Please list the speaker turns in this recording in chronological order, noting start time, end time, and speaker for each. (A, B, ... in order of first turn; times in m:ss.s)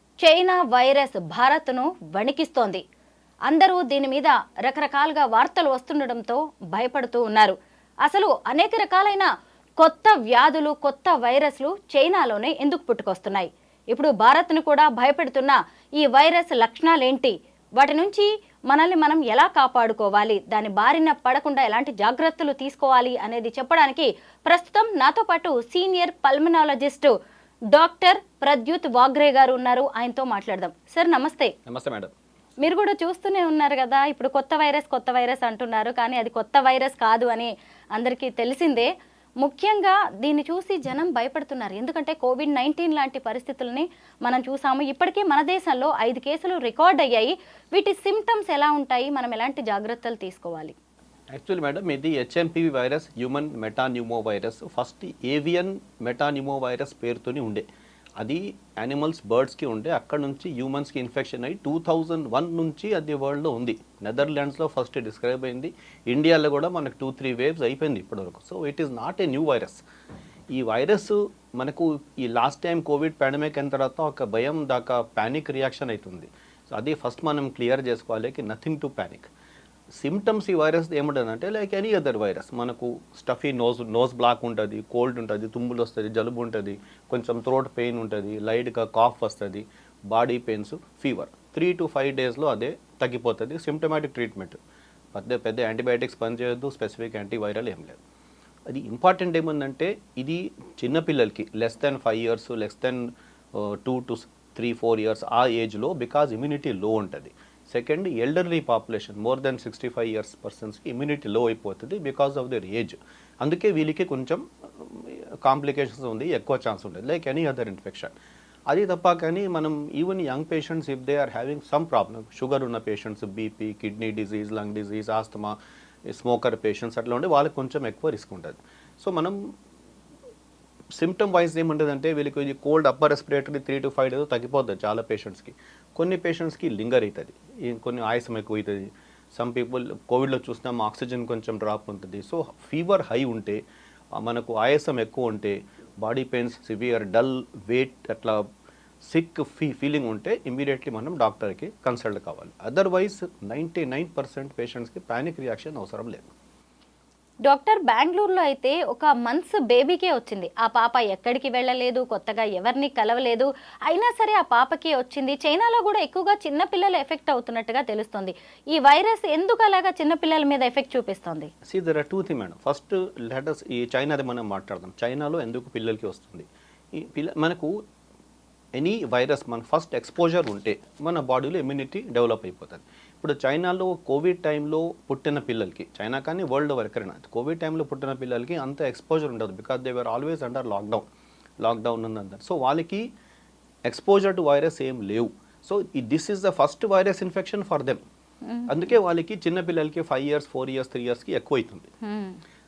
0:00.2-0:02.8 A
0:03.5-0:09.3 A
0:09.8-0:27.1 A
0:27.7-0:31.5 A
0:31.6-0:32.1 B
0:32.6-0:38.9 A
0:39.4-0:50.7 A
0:51.3-0:57.6 B
0:58.2-1:09.8 B
1:10.5-1:19.3 B
1:20.0-1:34.6 B
1:35.1-1:38.0 B
1:38.7-1:58.1 B
1:58.7-2:09.4 B
2:11.0-2:23.6 B
2:24.1-2:28.4 B
2:29.0-2:36.3 B
2:37.4-2:51.5 A
2:51.6-2:57.8 B
2:58.7-3:11.0 B
3:11.6-3:13.1 B
3:13.8-3:18.0 B
3:18.4-3:18.8 A
3:18.7-3:21.9 B
3:22.0-3:22.4 A